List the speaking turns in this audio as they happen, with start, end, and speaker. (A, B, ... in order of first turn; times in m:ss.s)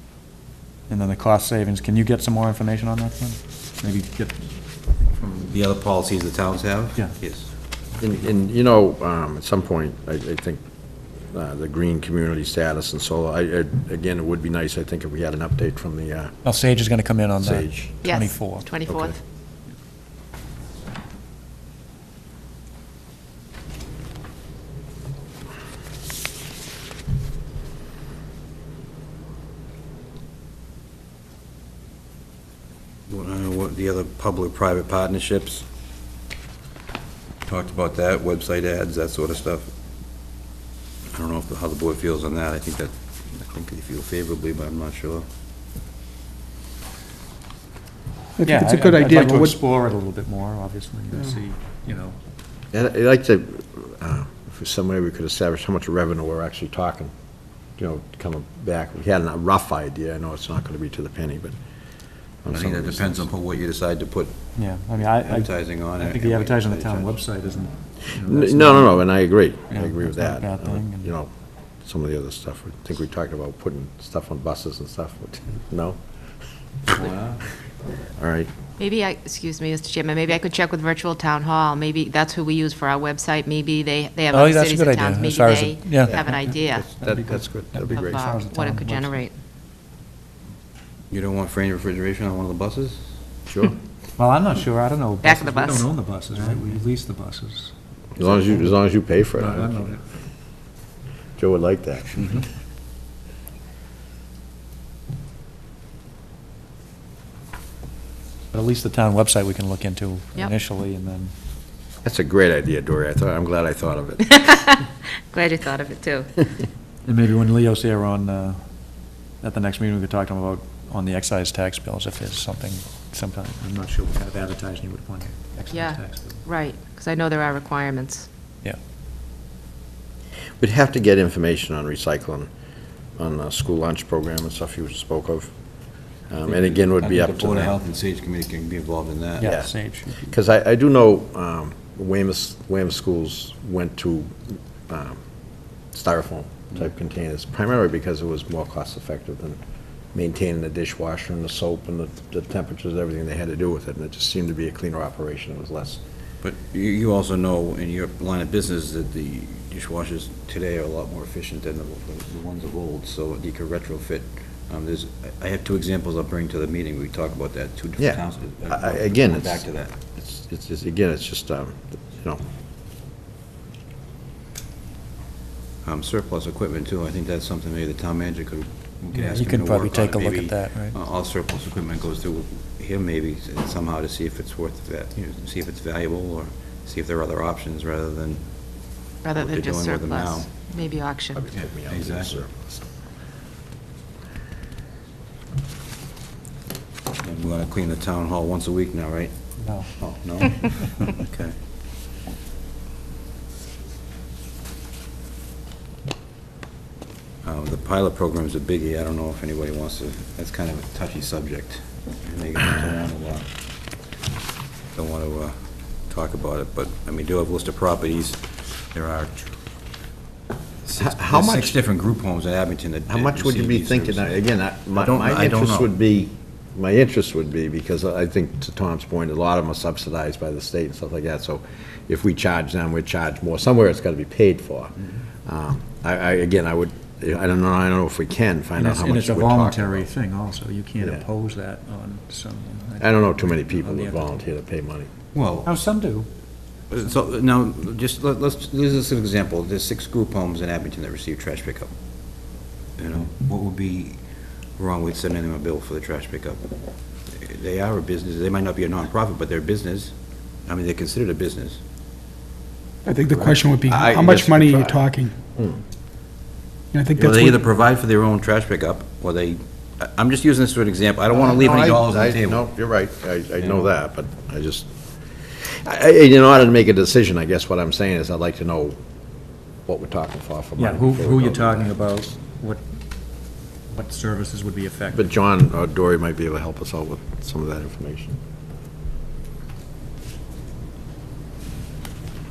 0:00.9-0:04.4 A
0:05.0-0:05.5 A
0:05.5-0:07.5 B
0:08.0-0:10.6 C
0:11.3-0:16.3 C
0:16.4-0:18.7 A
0:17.4-0:17.9 C
0:18.0-0:19.1 D
0:33.1-0:35.6 B
0:37.4-0:39.7 B
0:41.1-0:45.2 B
0:48.4-0:49.5 E
0:48.4-0:52.2 A
0:52.7-0:57.1 C
0:57.8-1:01.6 C
1:02.4-1:03.3 C
1:02.5-1:04.4 B
1:04.5-1:09.0 A
1:05.0-1:07.1 B
1:08.2-1:11.3 C
1:09.7-1:11.1 A
1:11.8-1:16.0 C
1:16.9-1:17.4 B
1:18.2-1:18.5 C
1:18.8-1:26.9 D
1:24.3-1:29.2 A
1:26.0-1:28.2 C
1:27.9-1:29.3 D
1:31.1-1:33.1 B
1:33.5-1:33.7 C
1:34.2-1:37.7 A
1:35.2-1:35.8 D
1:38.2-1:39.8 C
1:39.3-1:40.0 A
1:41.4-1:42.4 C
1:48.5-1:51.3 A
1:52.0-1:54.5 C
1:54.4-1:56.4 D
1:57.0-1:58.6 A
1:59.4-2:06.4 A
2:05.7-2:08.3 D
2:10.6-2:12.5 C
2:13.2-2:15.5 C
2:16.3-2:17.8 C
2:16.4-2:19.5 B
2:19.4-2:20.4 A
2:19.4-2:24.3 C
2:24.9-2:25.2 C
2:25.9-2:29.6 C
2:30.1-2:36.0 C
2:36.4-2:49.9 B
2:48.0-2:52.4 C
2:55.8-3:08.5 B
2:59.1-3:01.0 A
3:09.2-3:11.4 D
3:09.4-3:10.5 B
3:11.3-3:12.8 C
3:11.6-3:12.3 B
3:17.2-3:19.3 B
3:19.6-3:19.9 A
3:20.0-3:21.5 B
3:27.4-3:33.5 B
3:34.9-3:35.6 B
3:36.1-3:39.5 B
3:40.8-3:45.9 B
3:41.0-3:41.8 C
3:43.1-3:54.9 C
3:55.4-4:00.1 C
3:58.7-4:04.4 A
4:03.0-4:05.1 C
4:05.3-4:05.7 B
4:05.6-4:06.3 A
4:06.9-4:11.9 B
4:13.0-4:14.2 B
4:14.8-4:16.7 B
4:17.3-4:20.1 B
4:20.6-4:21.8 B
4:23.0-4:25.3 E
4:23.3-4:24.4 B
4:23.9-4:25.0 C
4:25.5-4:25.8 C
4:26.9-4:27.5 E
4:27.1-4:32.7 B
4:31.3-4:34.9 C
4:33.6-4:33.9 B
4:35.5-4:39.0 C
4:39.9-4:42.0 C
4:40.8-4:42.8 A
4:43.9-4:45.3 A
4:45.1-4:48.4 C